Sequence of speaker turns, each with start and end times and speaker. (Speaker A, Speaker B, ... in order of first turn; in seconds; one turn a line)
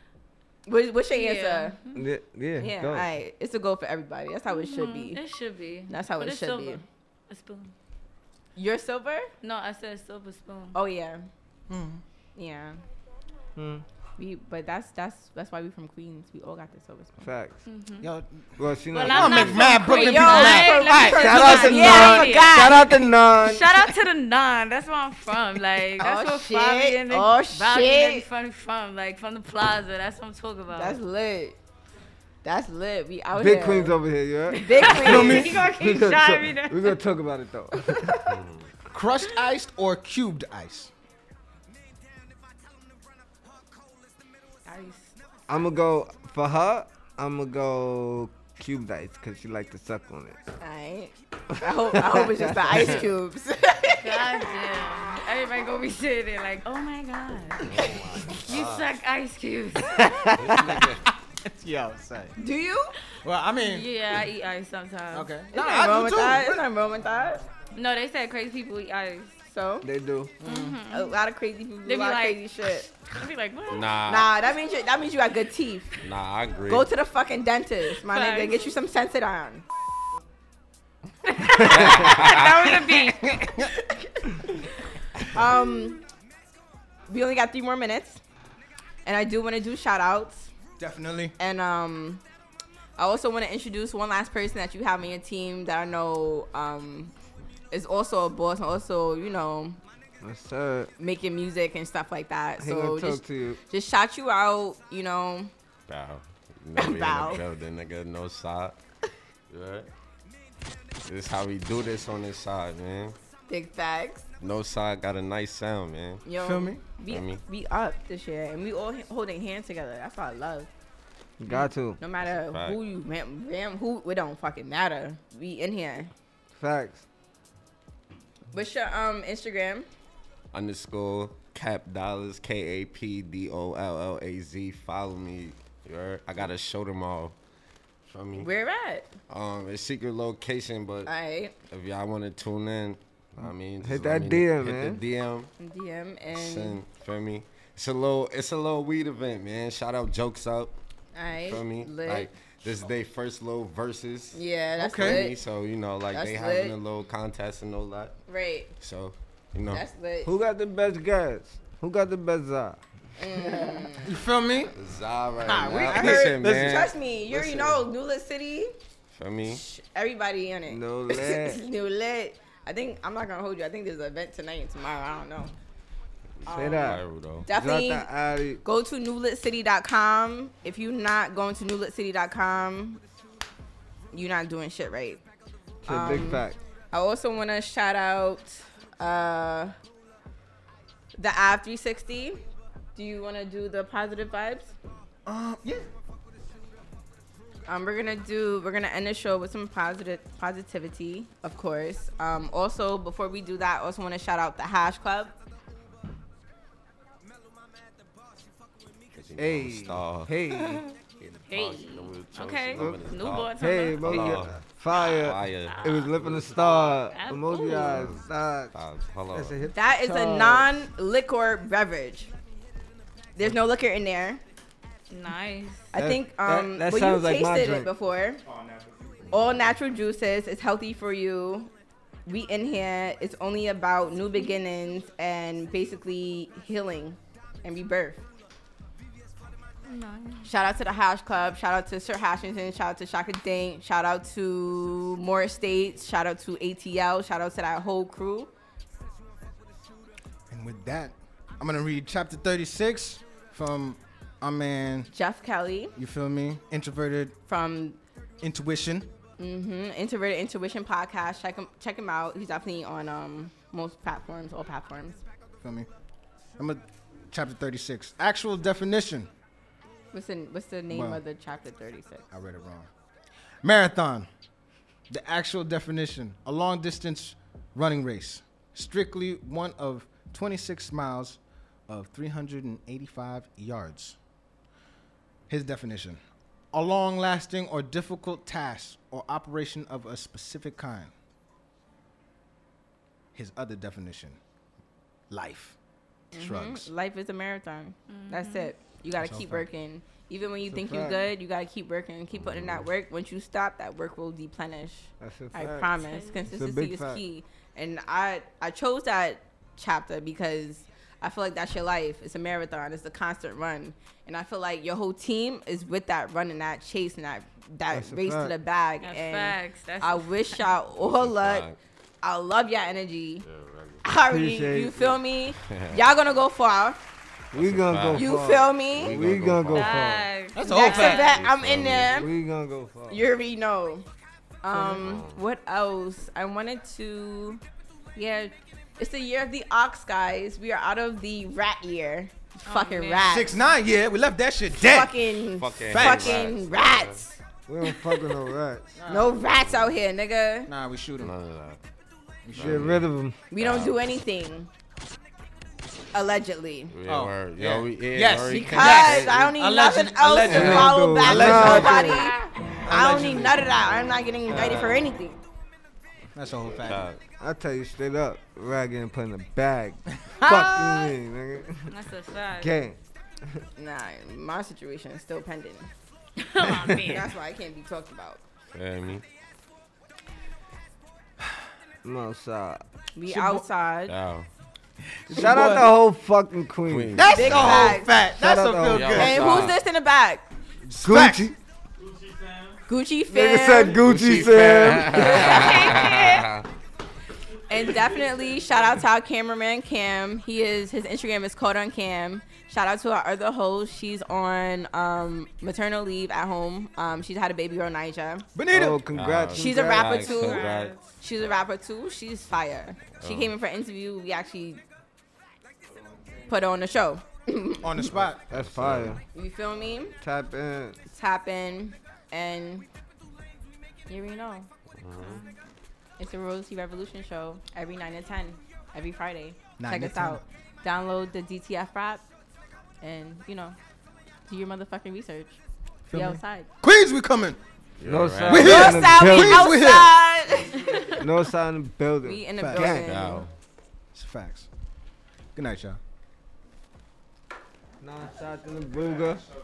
Speaker A: 0.7-1.8
Speaker B: 1.1-2.1
Speaker C: 1.9-3.1
Speaker A: 2.6-5.2
Speaker B: 4.5-7.7
Speaker A: 5.9-6.8
Speaker A: 8.6-9.3
Speaker B: 9.4-10.8
Speaker A: 10.7-11.2
Speaker D: 11.7-12.0
Speaker A: 12.3-12.8
Speaker C: 13.6-13.8
Speaker A: 14.2-17.3
Speaker C: 17.2-17.6
Speaker B: 17.6-18.1
Speaker D: 18.0-18.3
Speaker C: 18.6-19.8
Speaker B: 18.9-22.8
Speaker D: 19.0-22.2
Speaker A: 19.8-23.1
Speaker C: 21.1-23.7
Speaker B: 23.4-31.0
Speaker A: 26.0-28.2
Speaker A: 30.7-31.6
Speaker A: 32.4-34.0
Speaker C: 33.3-34.9
Speaker A: 34.5-35.5
Speaker B: 34.6-37.0
Speaker D: 34.9-35.6
Speaker C: 35.5-38.4
Speaker E: 38.3-38.6
Speaker D: 38.9-40.9
Speaker B: 44.6-45.1
Speaker C: 45.5-50.4
Speaker A: 50.6-54.4
Speaker C: 51.6-53.0
Speaker B: 54.0-60.4
Speaker E: 57.6-59.0
Speaker E: 60.4-61.0
Speaker D: 61.4-62.3
Speaker A: 62.4-62.9
Speaker D: 63.2-63.9
Speaker B: 63.6-65.3
Speaker D: 65.1-66.6
Speaker A: 65.5-67.4
Speaker B: 67.7-69.4
Speaker A: 69.5-69.9
Speaker C: 69.8-70.3
Speaker D: 70.4-70.8
Speaker B: 70.4-71.1
Speaker A: 70.9-72.8
Speaker B: 71.8-74.0
Speaker E: 73.7-74.3
Speaker A: 74.0-75.9
Speaker E: 76.0-76.9
Speaker A: 76.7-79.6
Speaker B: 78.1-78.7
Speaker B: 81.2-83.3
Speaker E: 81.9-82.4
Speaker D: 82.8-83.5
Speaker A: 84.2-84.5
Speaker A: 85.2-86.0
Speaker A: 87.1-88.2
Speaker A: 89.0-90.5
Speaker D: 90.8-91.3
Speaker A: 91.4-92.2
Speaker A: 93.0-97.1
Speaker A: 97.7-99.8
Speaker C: 100.2-100.9
Speaker A: 101.0-105.5
Speaker C: 102.6-103.6
Speaker E: 105.9-108.8
Speaker A: 106.8-107.4
Speaker E: 109.5-109.9
Speaker E: 111.0-113.2
Speaker A: 113.5-114.3
Speaker E: 114.4-116.2
Speaker A: 116.2-120.7
Speaker D: 116.3-117.0
Speaker E: 117.0-117.4
Speaker C: 121.4-122.0
Speaker A: 122.0-126.1
Speaker E: 122.2-122.8
Speaker C: 126.5-127.0
Speaker A: 128.5-129.9
Speaker E: 130.5-137.3
Speaker E: 138.1-138.5
Speaker A: 138.4-139.1
Speaker E: 139.3-141.1
Speaker A: 141.1-141.5
Speaker E: 141.7-145.5
Speaker C: 143.4-145.0
Speaker A: 145.6-146.8
Speaker E: 146.3-150.7
Speaker A: 151.1-152.3
Speaker E: 151.4-154.4
Speaker A: 154.3-155.4
Speaker D: 154.8-155.2
Speaker E: 154.9-158.2
Speaker A: 156.1-156.8
Speaker A: 158.3-158.7
Speaker E: 158.8-159.8
Speaker A: 159.7-160.3
Speaker C: 160.2-162.8
Speaker A: 163.2-164.1
Speaker D: 164.0-164.7
Speaker E: 164.7-166.9
Speaker A: 165.4-168.7
Speaker D: 165.6-166.9
Speaker C: 167.3-167.8
Speaker E: 169.1-169.6
Speaker A: 169.5-175.5
Speaker C: 170.7-171.6
Speaker A: 176.4-176.9
Speaker E: 176.4-177.4
Speaker C: 176.5-178.6
Speaker A: 177.4-178.1
Speaker A: 178.6-183.0
Speaker A: 184.1-185.2
Speaker C: 185.8-186.6
Speaker A: 185.8-189.7
Speaker A: 191.2-192.4
Speaker A: 192.9-194.7
Speaker D: 195.2-195.8
Speaker A: 197.7-205.3
Speaker E: 209.1-210.3
Speaker C: 209.4-210.8
Speaker E: 211.2-217.1
Speaker B: 211.5-214.3
Speaker C: 212.8-218.7
Speaker B: 214.9-216.1
Speaker B: 216.9-218.1
Speaker E: 217.8-219.7
Speaker C: 219.3-220.8
Speaker A: 219.7-222.3
Speaker A: 223.3-224.4
Speaker B: 225.1-225.9
Speaker A: 225.9-228.4
Speaker C: 225.9-227.9
Speaker D: 228.6-229.1
Speaker A: 229.3-231.7
Speaker A: 232.2-238.2
Speaker B: 239.8-240.5
Speaker A: 240.4-248.5
Speaker D: 250.5-255.1
Speaker A: 255.1-255.9
Speaker D: 256.0-257.4
Speaker A: 257.5-258.0
Speaker D: 258.4-259.1
Speaker A: 259.4-265.2
Speaker D: 265.6-265.9
Speaker D: 266.6-269.3
Speaker A: 270.1-272.3
Speaker D: 270.9-271.2
Speaker D: 272.3-272.9
Speaker D: 273.6-274.3
Speaker D: 275.1-284.2
Speaker D: 285.5-286.2
Speaker D: 286.7-291.1
Speaker D: 293.3-294.4
Speaker D: 295.3-295.8
Speaker A: 296.3-321.7
Speaker D: 296.4-296.9
Speaker B: 298.1-298.7
Speaker D: 299.2-299.6
Speaker C: 300.6-301.3
Speaker E: 302.3-302.9
Speaker C: 305.2-307.2
Speaker B: 306.0-306.4
Speaker C: 317.9-318.5
Speaker B: 319.0-320.7
Speaker E: 321.0-321.8
Speaker A: 322.2-323.4
Speaker E: 323.4-324.0
Speaker A: 324.0-327.0
Speaker C: 324.2-325.1
Speaker E: 325.7-326.0
Speaker E: 327.5-330.0
Speaker C: 327.5-330.3
Speaker A: 328.1-329.2
Speaker B: 329.7-331.4
Speaker D: 330.5-331.3
Speaker A: 330.6-332.3
Speaker E: 331.1-332.3
Speaker C: 332.1-333.2
Speaker A: 333.1-334.0
Speaker A: 334.6-337.6
Speaker E: 334.8-335.4
Speaker A: 338.1-343.6
Speaker B: 342.7-343.3
Speaker D: 343.2-345.2
Speaker A: 344.8-347.4
Speaker E: 345.5-347.2
Speaker D: 345.9-346.5
Speaker C: 347.7-349.0
Speaker D: 348.9-349.4
Speaker A: 349.1-350.7
Speaker D: 350.7-351.3
Speaker E: 351.2-351.8
Speaker D: 352.4-352.9
Speaker E: 352.5-353.0
Speaker C: 352.6-353.4
Speaker A: 353.5-354.7
Speaker E: 353.6-354.0
Speaker A: 356.1-356.9
Speaker E: 356.9-359.5
Speaker D: 357.1-362.1
Speaker A: 358.4-365.4
Speaker C: 360.4-362.3
Speaker D: 362.8-363.6
Speaker E: 364.5-365.1
Speaker D: 366.4-367.1
Speaker E: 366.5-367.2
Speaker C: 367.4-371.9
Speaker A: 370.4-371.1
Speaker B: 371.9-372.8
Speaker C: 372.6-373.0
Speaker A: 373.8-375.9
Speaker B: 376.4-377.3
Speaker A: 377.0-378.4
Speaker E: 378.7-379.2
Speaker C: 382.0-382.8
Speaker A: 383.1-384.1
Speaker D: 383.2-383.6
Speaker E: 384.1-384.5
Speaker D: 385.2-385.9
Speaker C: 385.3-389.7
Speaker E: 386.9-388.0
Speaker D: 387.1-389.5
Speaker A: 387.3-388.1
Speaker E: 388.9-389.8
Speaker A: 389.1-390.5
Speaker D: 390.8-391.5
Speaker C: 391.0-391.5
Speaker A: 392.9-394.0
Speaker C: 393.3-395.8
Speaker E: 393.9-396.6
Speaker A: 395.0-396.5
Speaker A: 397.7-408.4
Speaker D: 408.5-409.0
Speaker C: 408.7-410.3
Speaker E: 409.1-411.0
Speaker A: 409.5-414.8
Speaker B: 410.1-411.1
Speaker E: 413.2-413.5
Speaker A: 416.5-418.1
Speaker D: 417.8-418.4
Speaker C: 418.1-419.2
Speaker E: 418.5-419.2
Speaker A: 419.3-420.1
Speaker C: 420.2-421.0
Speaker A: 421.1-422.9
Speaker A: 424.1-424.7
Speaker E: 425.0-425.4
Speaker B: 425.2-425.6
Speaker A: 426.2-432.2
Speaker D: 429.8-430.4
Speaker A: 433.0-433.8
Speaker A: 434.5-435.6
Speaker D: 436.1-437.6
Speaker A: 436.1-436.7
Speaker E: 438.0-438.8
Speaker C: 438.0-439.8
Speaker D: 438.5-440.2
Speaker A: 438.5-440.8
Speaker B: 440.8-441.1
Speaker C: 441.2-443.1
Speaker A: 442.2-443.4
Speaker D: 442.6-443.0
Speaker E: 442.9-443.5
Speaker D: 444.1-444.7
Speaker D: 445.6-446.0
Speaker C: 448.0-449.4